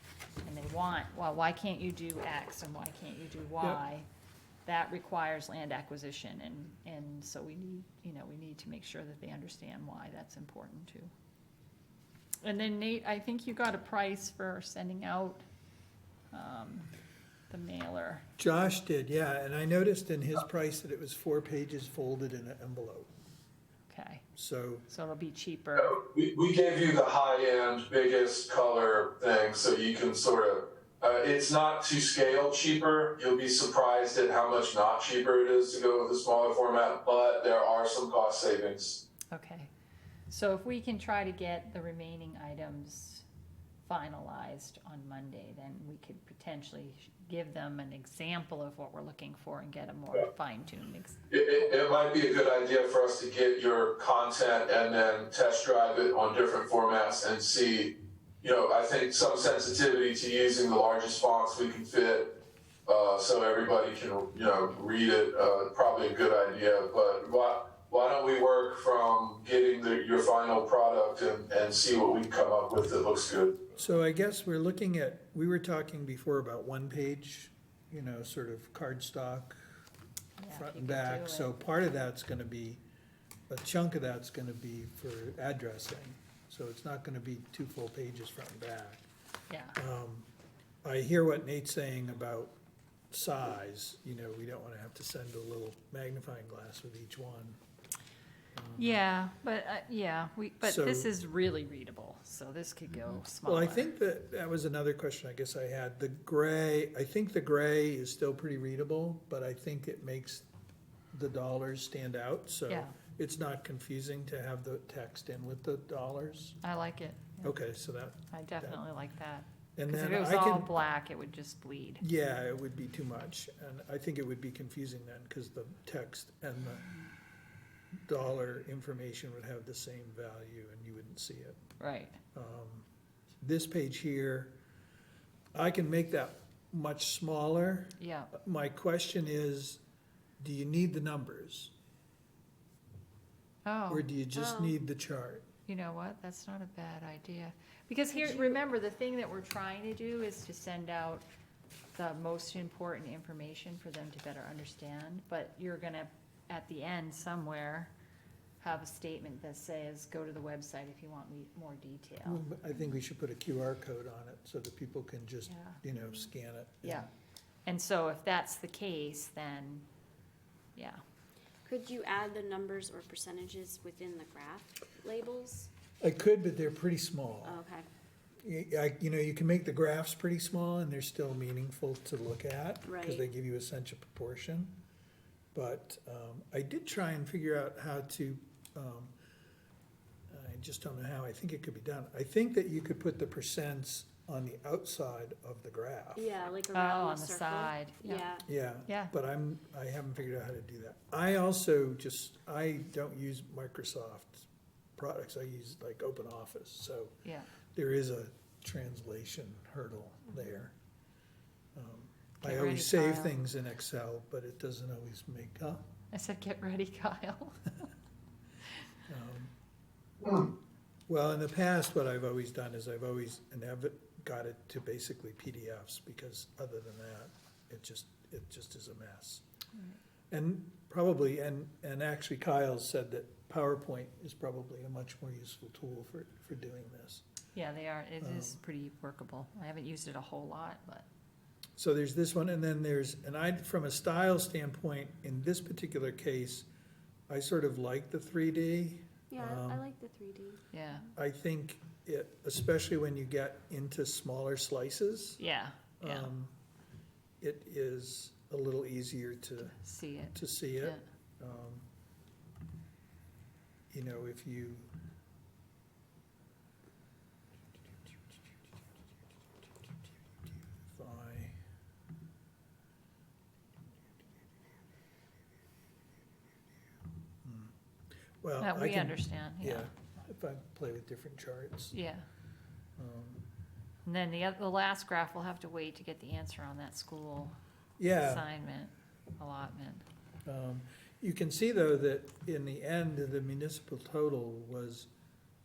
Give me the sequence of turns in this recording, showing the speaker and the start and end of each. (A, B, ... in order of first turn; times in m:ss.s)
0:00.4-0:04.0 A
0:04.6-0:11.1 A
0:12.4-0:15.4 A
0:16.3-0:16.9 A
0:17.5-0:18.2 A
0:18.4-0:23.1 B
0:23.9-0:24.2 A
0:24.3-0:24.9 B
0:24.9-0:26.0 A
0:25.8-0:39.0 C
0:39.3-0:39.7 A
0:40.3-0:43.2 A
0:43.8-0:51.8 A
0:51.3-1:13.6 C
1:13.8-1:19.6 B
1:20.4-1:21.5 A
1:20.5-1:22.8 B
1:23.5-1:29.0 B
1:29.5-1:29.8 A
1:29.7-1:30.3 B
1:30.8-1:32.6 B
1:33.1-1:37.6 B
1:38.6-1:39.0 B
1:38.8-1:43.9 A
1:40.6-1:41.1 B
1:43.4-1:50.4 B
1:51.1-1:56.6 B
1:52.7-1:52.9 A
1:56.6-1:57.5 A
1:57.4-1:58.8 B
1:58.3-2:02.0 A
1:59.8-2:00.8 B
2:02.0-2:07.0 B
2:08.0-2:11.6 B
2:11.8-2:12.2 A
2:12.3-2:12.8 B
2:13.4-2:14.5 B
2:15.5-2:19.8 B
2:18.0-2:18.3 A
2:20.4-2:21.7 B
2:23.6-2:24.0 A
2:23.9-2:25.5 B
2:24.3-2:24.8 D
2:25.7-2:31.2 A
2:28.1-2:28.6 D
2:31.9-2:37.9 A
2:38.6-2:42.4 A
2:42.2-2:47.1 B
2:45.5-2:45.8 A
2:46.8-2:47.1 A
2:47.6-2:49.8 A
2:50.8-2:51.0 A
2:51.6-2:55.7 D
2:56.0-2:57.6 B
2:57.4-2:57.9 D
2:58.4-3:04.8 B
3:02.8-3:03.2 D
3:05.5-3:09.1 B
3:10.3-3:16.3 B
3:16.2-3:18.4 D
3:16.7-3:18.3 A
3:18.4-3:27.2 B
3:18.9-3:19.1 A
3:27.2-3:27.5 A
3:27.7-3:30.7 B
3:31.7-3:35.8 B
3:32.4-3:33.4 A
3:36.1-3:37.7 A
3:39.1-3:39.5 B
3:40.2-3:40.5 B
3:41.1-3:49.4 B
3:50.3-3:57.2 B
3:57.5-4:01.0 A
3:58.2-3:58.6 B
4:01.8-4:06.7 B
4:07.3-4:09.8 B
4:09.3-4:10.6 D
4:10.7-4:11.1 A
4:11.2-4:15.4 B
4:15.4-4:16.3 A
4:16.0-4:16.5 B
4:17.4-4:19.8 B
4:19.6-4:21.0 A
4:20.3-4:21.8 B
4:23.9-4:24.9 B
4:30.9-4:31.6 B
4:37.4-4:37.7 B
4:38.4-4:42.0 B
4:38.6-4:39.9 A
4:41.9-4:42.2 A
4:43.0-4:43.4 B
4:44.0-4:47.6 A
4:48.0-4:48.5 B
4:48.2-4:50.0 A
4:50.4-4:55.1 B